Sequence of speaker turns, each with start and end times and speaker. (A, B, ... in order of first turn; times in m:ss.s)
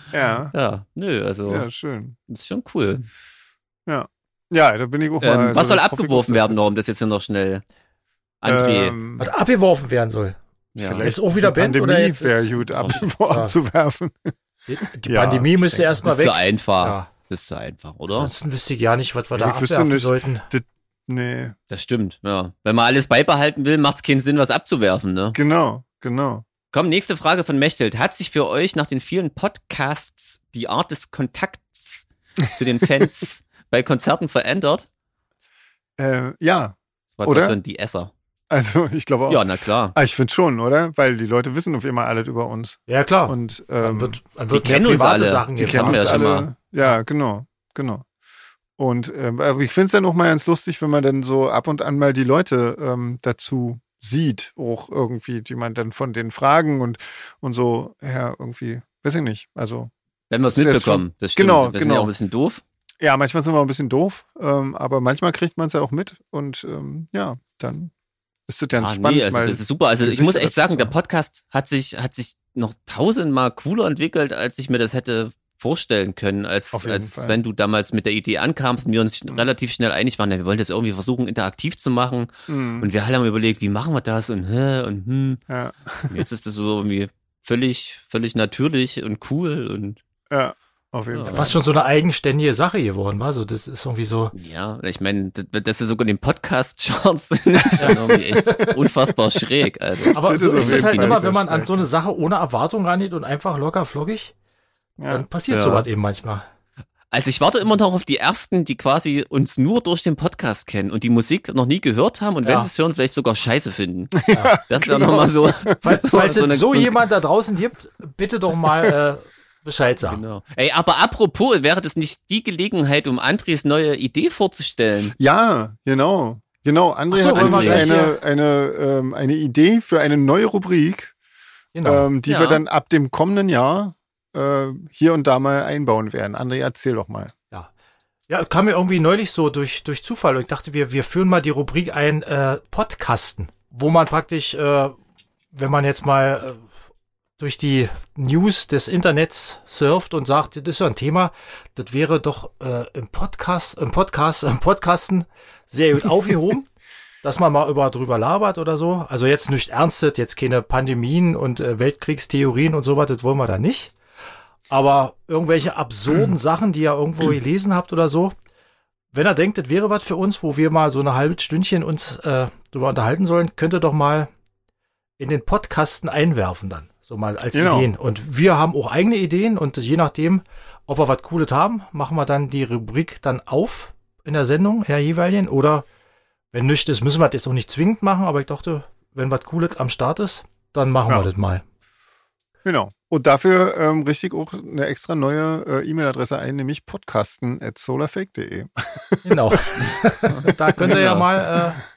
0:00.1-0:00.5 A
0:00.5-0:01.7 B
0:01.5-0:02.2 A
0:02.3-0:03.1 B
0:03.9-0:06.6 A
0:05.2-0:07.6 B
0:08.4-0:09.0 B
0:08.4-0:09.3 A
0:09.2-0:10.4 C
0:10.8-0:11.1 B
0:10.8-0:14.3 A
0:11.0-0:13.5 C
0:12.8-0:13.1 B
0:14.7-0:17.1 C
0:15.0-0:16.0 A
0:16.0-0:18.3 B
0:18.1-0:20.5 C
0:19.3-0:21.5 A
0:21.7-0:25.4 B
0:25.3-0:26.4 A
0:26.7-0:34.9 B
0:36.0-0:37.6 A
0:37.2-0:38.1 B
0:38.5-0:44.2 A
0:39.3-0:40.0 B
0:42.9-0:46.3 C
0:44.5-0:46.5 B
0:45.6-0:48.0 A
0:48.8-0:59.9 A
1:00.3-1:02.6 B
1:00.5-1:02.1 A
1:03.0-1:07.9 A
1:08.5-1:10.9 A
1:08.8-1:25.4 B
1:16.7-1:17.4 A
1:22.5-1:22.9 A
1:25.5-1:26.2 A
1:26.1-1:30.0 B
1:30.3-1:31.6 A
1:31.1-1:31.5 B
1:31.3-1:34.3 C
1:34.3-1:41.3 B
1:37.6-1:38.1 A
1:37.8-1:38.8 C
1:40.1-1:44.3 C
1:40.1-1:41.8 A
1:45.0-1:45.2 A
1:45.1-1:46.4 C
1:45.5-1:45.8 B
1:47.1-1:57.0 B
1:52.4-1:52.7 C
1:54.2-1:55.8 A
1:54.3-1:54.6 C
1:55.8-2:00.2 C
2:00.0-2:05.2 B
2:05.2-2:11.1 A
2:07.1-2:08.2 C
2:07.3-2:07.9 B
2:11.7-2:12.1 C
2:11.8-2:17.3 A
2:12.2-2:12.6 B
2:18.3-2:25.0 C
2:25.5-2:26.8 C
2:27.4-2:36.7 C
2:37.2-2:43.9 C
2:44.7-2:48.3 C
2:49.1-2:54.3 C
2:55.2-3:05.8 C
2:57.5-2:57.9 A
3:06.5-3:11.6 C
3:12.6-3:21.6 A
3:19.2-3:21.8 C
3:20.8-3:21.2 B